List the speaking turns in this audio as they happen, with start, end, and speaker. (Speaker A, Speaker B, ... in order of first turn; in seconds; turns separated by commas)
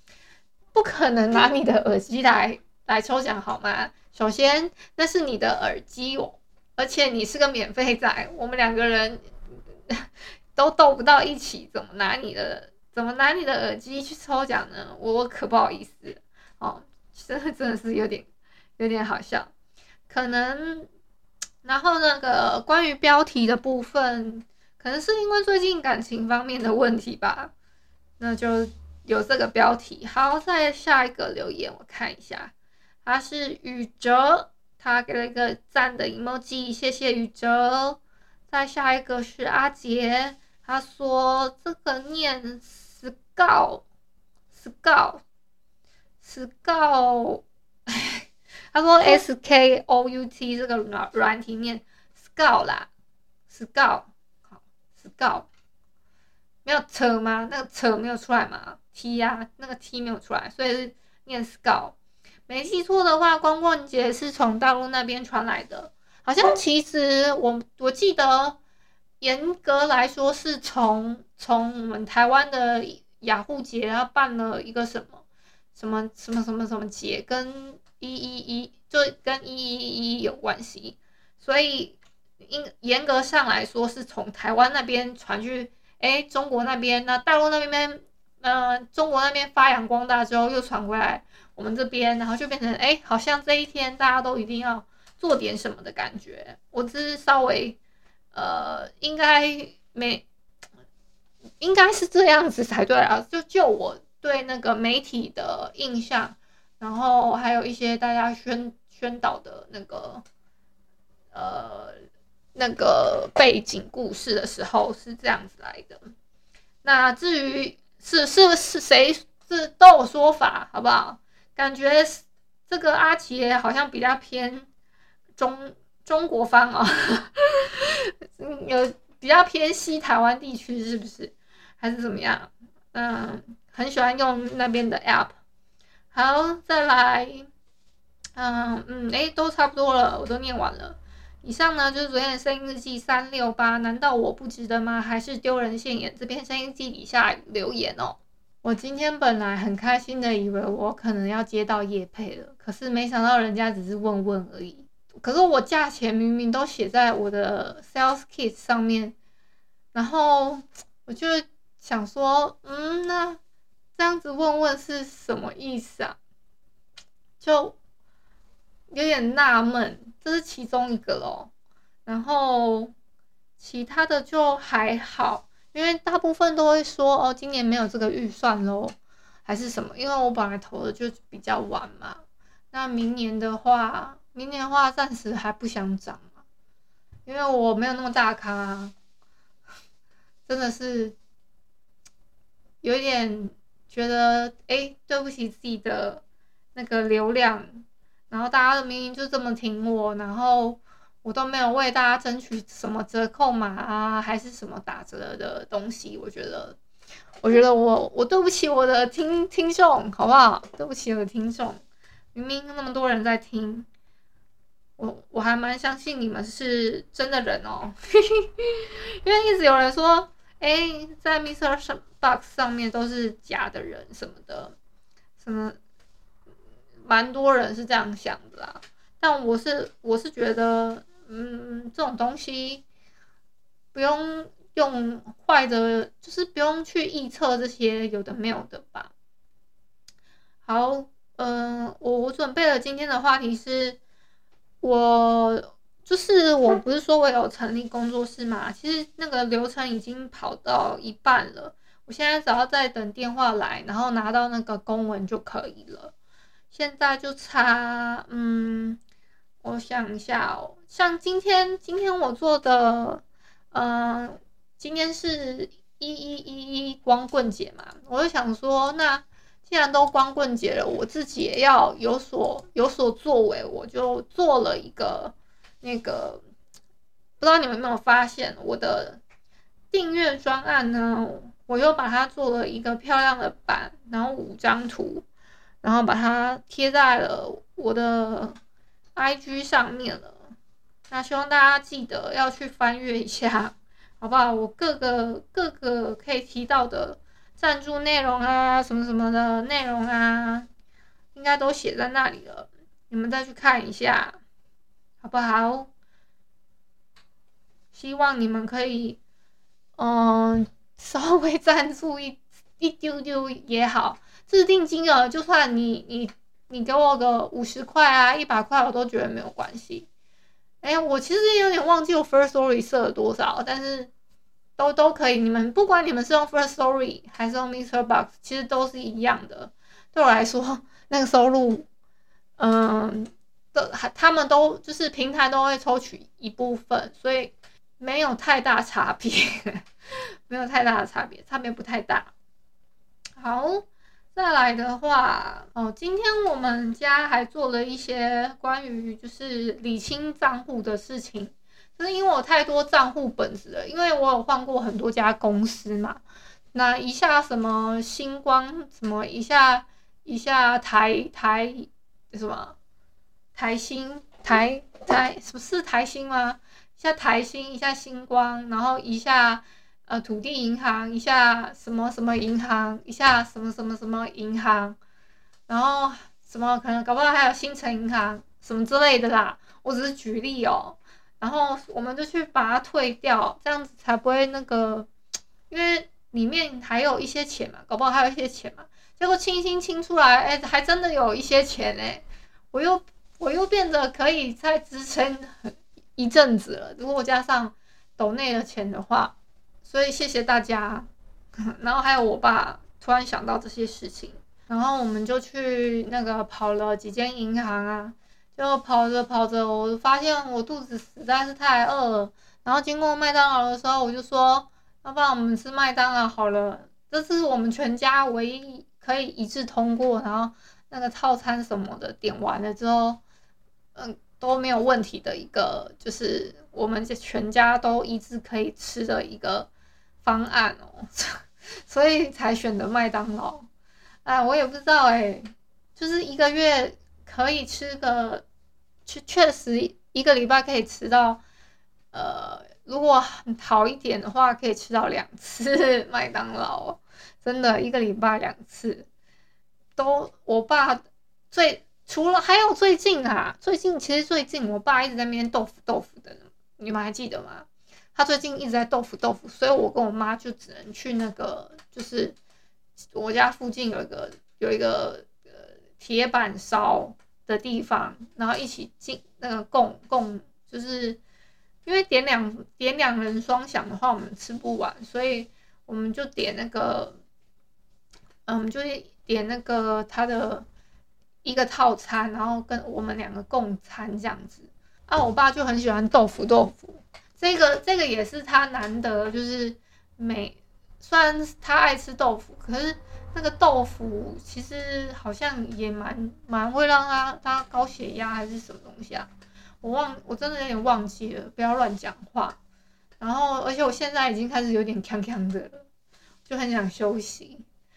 Speaker A: 0.7-9.2, Speaker A: 9.9-19.5, Speaker A: 20.1-20.9, Speaker A: 21.6-27.5, Speaker A: 28.2-32.5, Speaker A: 33.0-43.8, Speaker A: 44.5-45.2, Speaker A: 46.2-52.9, Speaker A: 53.5-55.5, Speaker A: 56.6-61.9, Speaker A: 62.5-68.6, Speaker A: 69.2-75.2, Speaker A: 75.7-97.8, Speaker A: 98.3-100.2, Speaker A: 101.6-110.2, Speaker A: 111.3-112.0, Speaker A: 112.5-116.0, Speaker A: 116.8-124.7, Speaker A: 125.4-135.3, Speaker A: 136.1-137.5, Speaker A: 138.3-159.2, Speaker A: 159.9-163.4, Speaker A: 163.9-166.2, Speaker A: 167.4-167.8, Speaker A: 168.9-171.5, Speaker A: 172.1-172.9, Speaker A: 173.6-186.3, Speaker A: 187.2-188.9, Speaker A: 190.5-191.1, Speaker A: 192.8-196.2, Speaker A: 196.7-206.8, Speaker A: 207.4-211.8, Speaker A: 212.3-213.9, Speaker A: 215.0-224.7, Speaker A: 225.4-225.8, Speaker A: 227.0-232.8, Speaker A: 233.9-239.1, Speaker A: 240.6-244.0, Speaker A: 244.8-256.1, Speaker A: 256.7-259.0, Speaker A: 259.6-276.4, Speaker A: 277.4-279.2, Speaker A: 279.9-285.2, Speaker A: 285.8-288.6, Speaker A: 289.1-290.4, Speaker A: 291.1-300.7, Speaker A: 301.3-304.4, Speaker A: 305.2-305.9, Speaker A: 307.9-309.2, Speaker A: 310.0-320.1, Speaker A: 320.8-324.1, Speaker A: 324.8-331.9, Speaker A: 332.6-339.9, Speaker A: 340.5-342.3, Speaker A: 343.4-356.2, Speaker A: 356.7-362.7, Speaker A: 363.5-375.0, Speaker A: 375.7-385.1, Speaker A: 385.7-401.1, Speaker A: 401.6-423.2, Speaker A: 423.9-429.7, Speaker A: 430.2-433.7, Speaker A: 434.2-438.4, Speaker A: 439.1-441.4, Speaker A: 442.1-449.1, Speaker A: 449.9-462.4, Speaker A: 463.1-471.2, Speaker A: 471.9-477.2, Speaker A: 478.4-480.6, Speaker A: 481.4-499.3, Speaker A: 499.8-502.6, Speaker A: 503.2-505.9, Speaker A: 506.5-507.6